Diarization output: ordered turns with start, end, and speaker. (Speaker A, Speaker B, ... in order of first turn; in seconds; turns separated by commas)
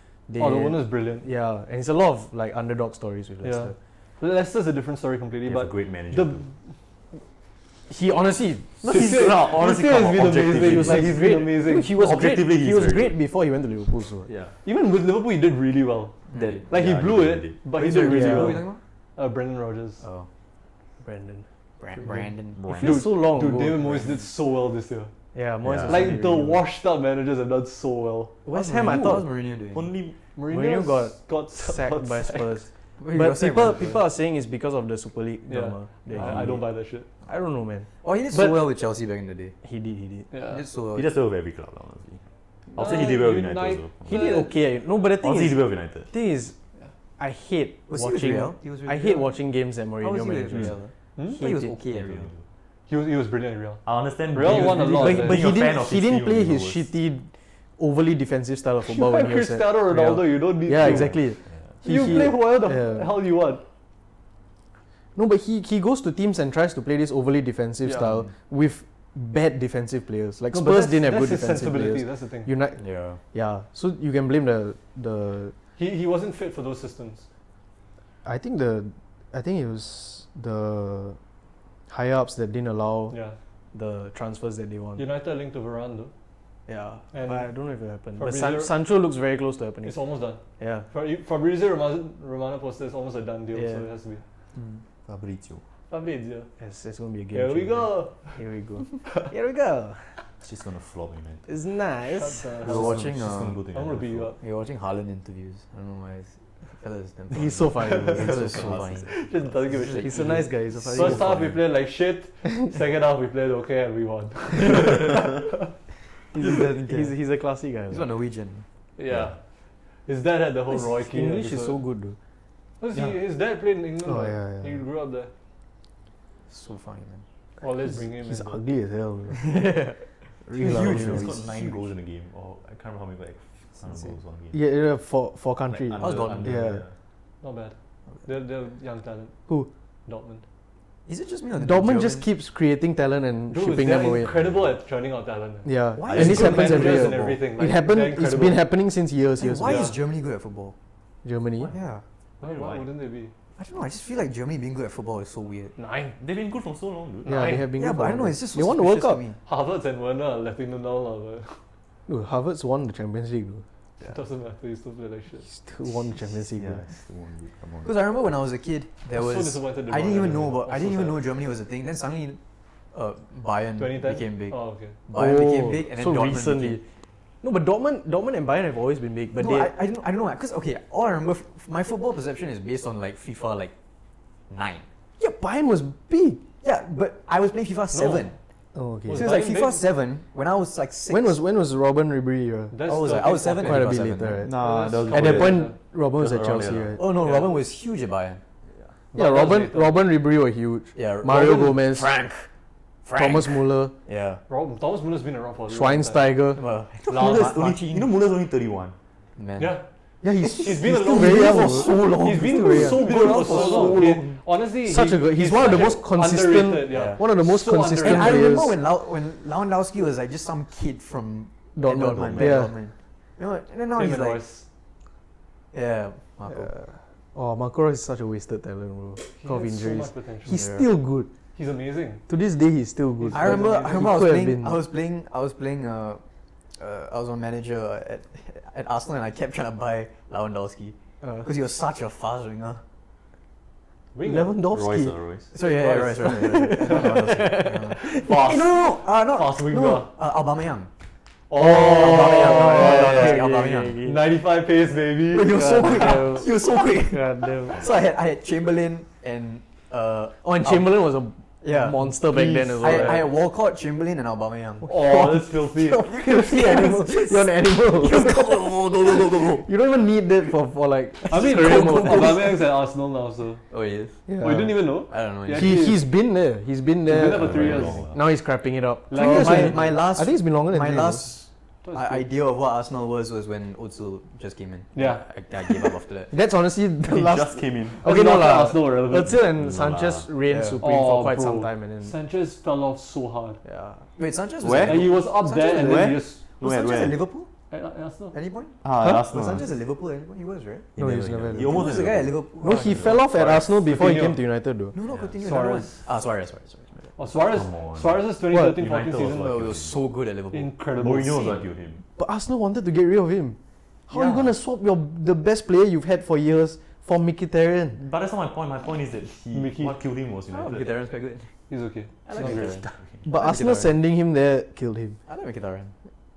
Speaker A: 0.3-3.7, Speaker B: 0.4-1.2, Speaker B: 3.4-6.5, Speaker C: 5.5-6.5, Speaker A: 7.9-8.8, Speaker C: 8.8-11.3, Speaker B: 8.8-11.9, Speaker A: 10.6-14.3, Speaker C: 11.8-13.2, Speaker C: 14.2-14.5, Speaker B: 14.6-20.0, Speaker D: 16.3-16.6, Speaker C: 16.3-17.6, Speaker D: 17.7-18.8, Speaker A: 18.0-18.6, Speaker D: 20.0-20.3, Speaker A: 21.0-21.5, Speaker D: 21.8-22.7, Speaker B: 22.0-25.1, Speaker C: 22.5-23.1, Speaker A: 22.7-24.0, Speaker D: 23.8-24.2, Speaker A: 25.3-26.6, Speaker C: 25.6-26.2, Speaker B: 25.8-28.3, Speaker D: 28.4-29.9, Speaker A: 28.5-29.3, Speaker C: 29.7-30.2, Speaker B: 30.3-32.6, Speaker A: 30.5-36.6, Speaker D: 33.0-34.0, Speaker B: 35.5-37.1, Speaker C: 36.1-36.6, Speaker A: 37.2-38.6, Speaker D: 38.0-39.5, Speaker A: 39.6-40.3, Speaker B: 40.3-40.6, Speaker D: 40.4-41.1, Speaker C: 40.9-44.4, Speaker B: 42.8-44.5, Speaker A: 44.1-46.5, Speaker C: 45.1-46.1, Speaker A: 47.2-50.8, Speaker D: 47.9-49.3, Speaker D: 50.0-52.3, Speaker B: 51.1-51.4, Speaker A: 51.4-51.7, Speaker C: 51.9-52.4, Speaker B: 52.9-55.5, Speaker C: 53.8-56.9, Speaker A: 54.6-63.1, Speaker B: 58.8-61.3, Speaker C: 60.8-62.3, Speaker B: 61.8-63.6, Speaker A: 65.1-72.8, Speaker D: 68.0-68.2, Speaker B: 70.5-72.5, Speaker D: 72.8-73.2, Speaker A: 73.3-75.5, Speaker B: 75.8-77.2, Speaker A: 78.2-81.2, Speaker A: 81.9-83.2, Speaker B: 83.1-83.4, Speaker A: 83.7-85.0, Speaker B: 85.0-86.1, Speaker A: 86.7-90.0, Speaker B: 87.1-87.5, Speaker B: 88.2-88.8, Speaker B: 89.8-94.2, Speaker A: 90.6-90.9, Speaker A: 93.5-93.9, Speaker D: 94.5-94.8, Speaker C: 95.1-95.6, Speaker B: 95.9-96.5, Speaker A: 96.6-100.2, Speaker B: 97.3-98.4, Speaker C: 100.4-101.5, Speaker A: 101.5-103.0, Speaker B: 102.1-103.1, Speaker D: 102.6-103.6, Speaker C: 102.7-104.3, Speaker B: 103.7-104.4, Speaker D: 104.4-111.6, Speaker A: 107.3-109.0, Speaker B: 107.8-115.7, Speaker C: 108.2-109.1, Speaker A: 109.9-111.4, Speaker D: 116.3-117.2, Speaker A: 116.3-118.0, Speaker D: 117.9-118.6, Speaker B: 119.0-119.4, Speaker C: 119.1-119.4, Speaker B: 120.0-121.8, Speaker A: 120.7-122.2, Speaker B: 122.8-125.3, Speaker A: 124.0-124.8, Speaker D: 126.5-127.2, Speaker B: 127.6-128.6, Speaker A: 127.8-129.8, Speaker D: 129.4-130.0, Speaker A: 130.4-131.4, Speaker D: 130.5-131.9, Speaker C: 130.6-134.6, Speaker D: 133.9-134.1, Speaker A: 134.5-136.8, Speaker C: 135.7-136.9, Speaker D: 136.0-136.7, Speaker B: 137.4-139.4, Speaker B: 140.1-140.4, Speaker D: 141.1-142.3, Speaker A: 141.6-144.3, Speaker B: 143.5-148.6, Speaker C: 144.1-144.7, Speaker A: 145.6-149.9, Speaker D: 146.0-146.9, Speaker C: 146.0-147.4, Speaker D: 149.4-150.7, Speaker B: 149.6-150.0, Speaker A: 151.2-151.7, Speaker D: 151.7-152.0, Speaker B: 152.4-153.3, Speaker C: 152.4-152.9, Speaker D: 153.6-155.7, Speaker A: 155.8-156.2, Speaker C: 156.2-157.6, Speaker A: 157.2-159.2, Speaker B: 157.2-157.7, Speaker D: 157.8-159.4, Speaker B: 159.4-161.6, Speaker A: 162.1-163.6, Speaker B: 164.0-165.4, Speaker A: 165.4-166.8, Speaker C: 166.5-168.0, Speaker D: 167.8-172.4, Speaker B: 169.1-171.2, Speaker D: 172.9-176.8, Speaker B: 173.8-175.0, Speaker A: 175.1-176.8, Speaker A: 177.4-179.7, Speaker D: 179.4-183.7, Speaker D: 184.5-184.9, Speaker A: 185.2-186.4, Speaker D: 186.6-188.3, Speaker B: 187.9-188.3, Speaker A: 188.7-189.3, Speaker B: 189.1-189.8, Speaker D: 189.1-191.4, Speaker A: 191.1-192.8, Speaker B: 192.7-195.8, Speaker D: 192.8-194.5, Speaker A: 193.6-197.0, Speaker C: 194.3-197.0, Speaker D: 197.0-198.4, Speaker B: 197.2-197.5, Speaker B: 199.1-200.0, Speaker A: 199.1-202.1, Speaker D: 200.9-202.5, Speaker D: 203.0-204.4, Speaker A: 203.1-203.9, Speaker B: 204.5-206.3, Speaker A: 205.7-206.6, Speaker D: 206.6-208.1, Speaker B: 207.1-207.6, Speaker C: 207.1-208.9, Speaker D: 209.4-209.8, Speaker B: 209.6-209.8, Speaker A: 210.2-218.8, Speaker B: 210.4-218.5, Speaker D: 211.1-212.1, Speaker D: 212.7-214.3, Speaker D: 216.9-217.2, Speaker D: 218.0-224.4, Speaker A: 221.8-222.7, Speaker C: 222.0-222.6, Speaker B: 223.9-224.7, Speaker D: 225.7-226.9, Speaker A: 226.5-231.3, Speaker B: 229.4-230.6, Speaker D: 230.5-230.8, Speaker B: 231.5-232.2, Speaker A: 232.3-234.8, Speaker B: 233.2-234.1, Speaker D: 233.3-236.2, Speaker D: 236.8-242.8, Speaker A: 241.2-241.5, Speaker B: 244.1-244.6, Speaker A: 244.2-245.2, Speaker C: 244.7-245.5, Speaker D: 245.5-250.9, Speaker B: 245.5-247.3, Speaker A: 246.2-248.5, Speaker B: 248.0-250.1, Speaker B: 251.5-253.5, Speaker D: 251.6-254.0, Speaker A: 251.6-254.3, Speaker B: 254.0-256.3, Speaker D: 255.3-261.0, Speaker A: 255.4-257.9, Speaker A: 260.4-263.3, Speaker D: 261.6-269.7, Speaker B: 264.8-266.1, Speaker A: 266.0-272.6, Speaker D: 271.2-272.5, Speaker B: 271.3-273.6, Speaker D: 273.7-274.2, Speaker A: 274.3-274.8, Speaker B: 274.4-276.0, Speaker D: 275.1-275.9, Speaker A: 275.5-281.3, Speaker B: 277.1-278.1, Speaker C: 277.2-278.2, Speaker B: 279.1-280.0, Speaker D: 279.1-286.3, Speaker B: 281.8-282.2, Speaker B: 284.9-285.2, Speaker A: 286.3-292.1, Speaker C: 287.0-288.1, Speaker B: 288.0-289.4, Speaker C: 289.2-290.3, Speaker D: 290.5-290.8, Speaker B: 290.8-293.6, Speaker A: 293.6-294.0, Speaker D: 294.2-297.5, Speaker C: 294.6-297.2, Speaker B: 294.7-296.4, Speaker B: 297.7-298.4, Speaker D: 298.3-300.9, Speaker C: 298.8-299.7, Speaker A: 299.0-299.3, Speaker C: 300.9-303.6, Speaker A: 301.0-302.1, Speaker D: 301.5-303.2, Speaker A: 302.6-304.9, Speaker B: 303.3-304.4, Speaker D: 304.9-307.0, Speaker B: 305.4-306.1, Speaker B: 307.2-309.6, Speaker C: 307.4-310.0, Speaker A: 308.5-308.8, Speaker D: 309.4-310.7, Speaker B: 310.5-311.6, Speaker C: 310.9-312.0, Speaker A: 312.2-318.0, Speaker D: 314.1-314.4, Speaker C: 317.9-320.9, Speaker B: 319.5-320.0, Speaker D: 320.5-321.5, Speaker B: 321.7-322.8, Speaker D: 322.2-323.9, Speaker C: 322.4-323.2, Speaker A: 323.2-325.2, Speaker D: 325.3-325.9